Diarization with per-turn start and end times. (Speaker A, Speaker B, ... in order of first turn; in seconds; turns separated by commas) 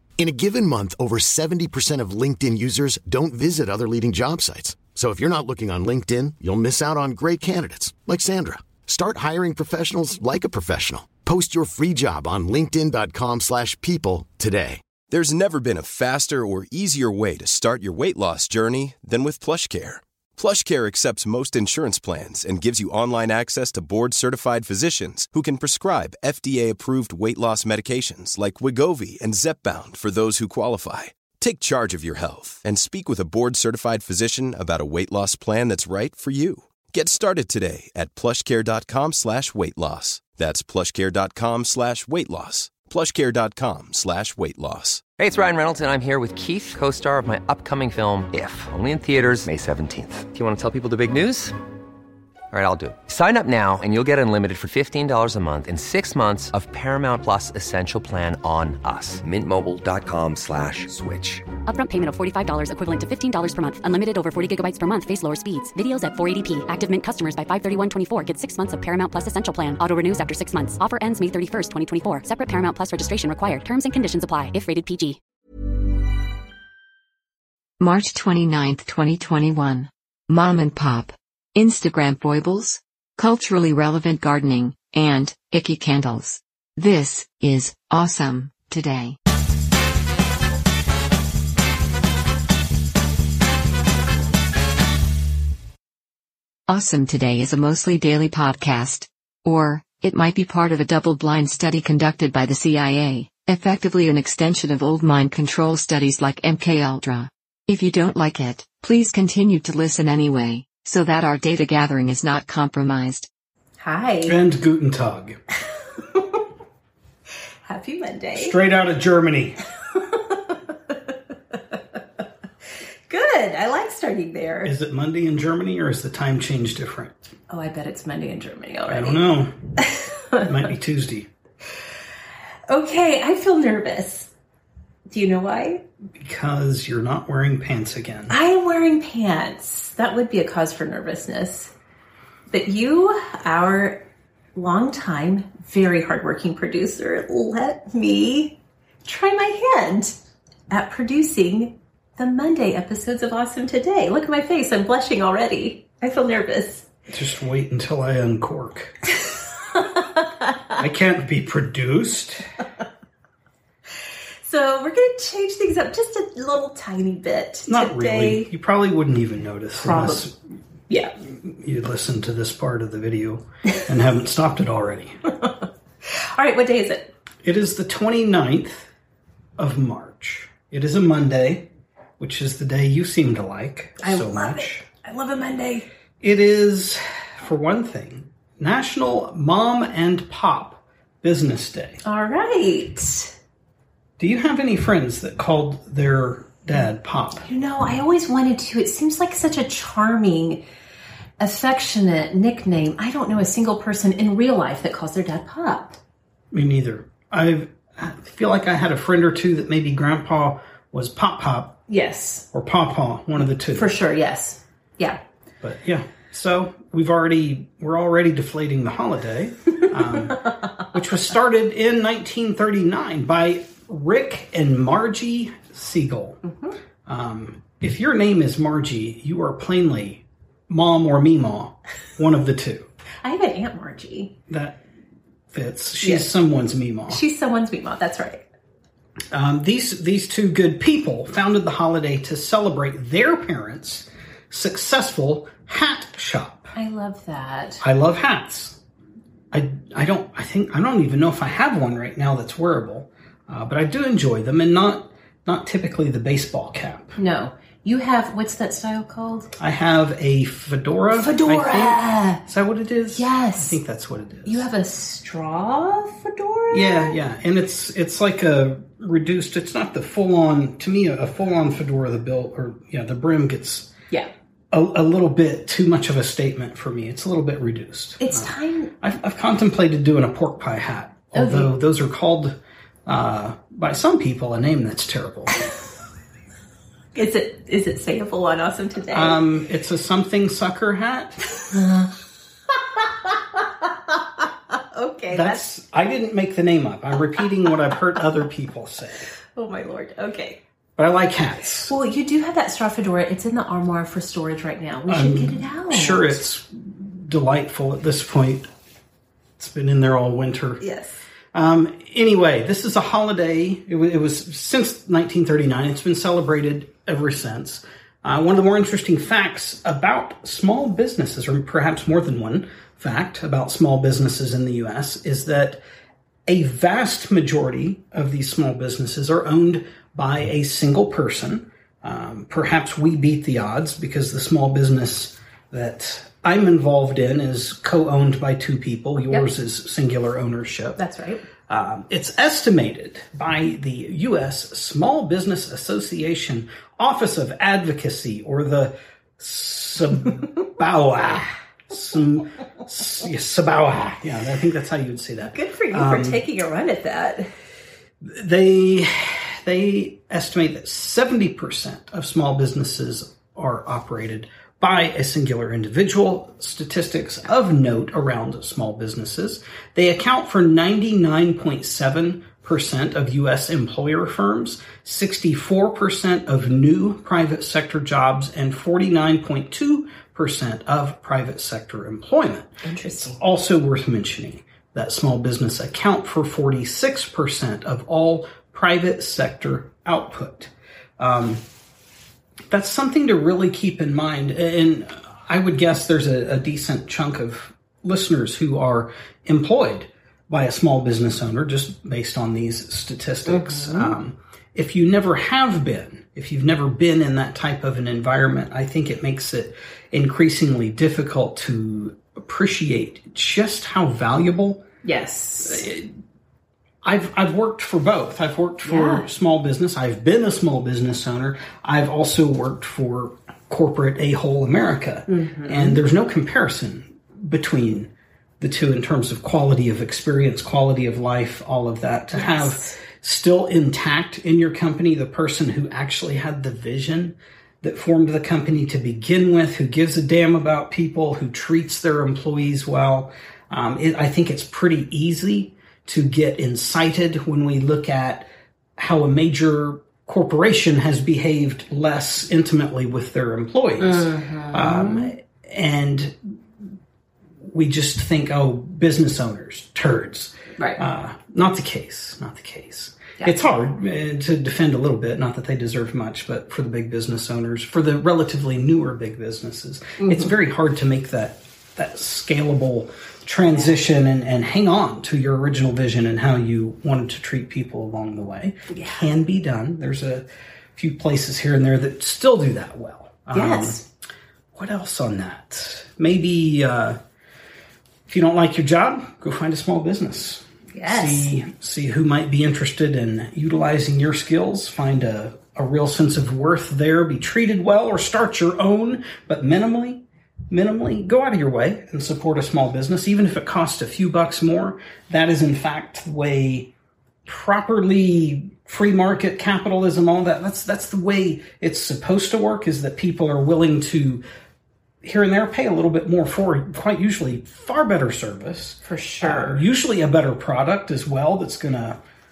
Speaker A: 0.2-14.8, Speaker B: 15.1-45.0, Speaker C: 45.2-51.5, Speaker C: 52.5-61.5, Speaker D: 61.6-75.2, Speaker E: 77.8-89.2, Speaker E: 96.7-113.3, Speaker F: 113.8-114.4, Speaker G: 114.2-115.4, Speaker F: 116.1-116.4, Speaker F: 117.6-118.6, Speaker G: 118.3-119.6, Speaker F: 120.1-120.6, Speaker F: 123.1-124.7, Speaker G: 124.6-127.1, Speaker F: 127.5-129.2, Speaker G: 128.9-129.5, Speaker F: 129.8-130.5, Speaker G: 130.4-131.3, Speaker F: 132.7-134.3, Speaker F: 135.1-135.8, Speaker G: 136.1-138.3, Speaker F: 138.3-141.7, Speaker F: 142.5-150.2, Speaker F: 150.7-156.8, Speaker G: 157.1-158.9, Speaker F: 159.7-160.8, Speaker G: 160.8-162.4, Speaker F: 164.4-168.5, Speaker G: 167.7-170.3, Speaker F: 169.8-170.3, Speaker F: 170.9-171.1, Speaker G: 171.4-175.2, Speaker F: 176.3-177.1, Speaker G: 177.4-178.9, Speaker G: 179.6-181.7, Speaker G: 182.2-184.8, Speaker F: 184.0-185.9, Speaker G: 186.2-192.0, Speaker F: 192.0-193.3, Speaker G: 194.2-197.5, Speaker F: 197.4-200.6, Speaker F: 201.4-206.0, Speaker G: 206.5-211.8, Speaker F: 211.9-212.4, Speaker G: 212.5-213.9, Speaker F: 213.7-215.2, Speaker G: 215.6-226.4, Speaker F: 226.4-226.8, Speaker G: 227.1-232.9, Speaker F: 233.2-234.3, Speaker G: 234.5-234.8, Speaker G: 235.5-237.2, Speaker F: 236.0-236.3, Speaker F: 237.1-238.4, Speaker G: 239.3-246.7, Speaker F: 246.7-247.8, Speaker G: 247.8-248.8, Speaker G: 249.5-257.1, Speaker F: 257.2-259.5, Speaker G: 259.6-264.7, Speaker F: 261.1-262.4, Speaker F: 263.1-263.8, Speaker F: 264.4-267.2, Speaker G: 266.7-273.9, Speaker G: 274.7-285.6, Speaker F: 278.2-278.9, Speaker F: 281.3-281.7, Speaker F: 287.1-289.4, Speaker G: 289.1-291.4, Speaker F: 291.7-292.1, Speaker F: 293.1-295.6, Speaker G: 295.3-299.3, Speaker F: 299.6-300.6, Speaker G: 301.0-301.9, Speaker F: 301.9-306.4, Speaker G: 305.1-308.7, Speaker G: 309.6-310.8, Speaker F: 310.8-311.2, Speaker G: 311.5-325.8, Speaker G: 326.4-341.0, Speaker F: 341.0-341.4, Speaker G: 341.7-356.4, Speaker F: 355.4-357.5, Speaker G: 358.2-391.6, Speaker F: 382.8-383.4, Speaker G: 392.7-414.8, Speaker F: 403.4-404.1, Speaker F: 415.0-415.9, Speaker G: 415.6-416.1, Speaker G: 417.0-456.5, Speaker F: 418.8-419.2, Speaker F: 425.3-426.0, Speaker F: 432.3-432.9, Speaker F: 454.0-455.3, Speaker G: 457.6-484.0, Speaker F: 460.8-461.0, Speaker F: 463.4-463.6, Speaker F: 470.2-470.5, Speaker F: 478.9-479.2, Speaker F: 483.5-484.0, Speaker G: 484.7-487.2, Speaker G: 488.3-506.9, Speaker F: 490.9-491.5, Speaker G: 507.4-514.4, Speaker G: 515.2-522.2, Speaker F: 519.0-519.8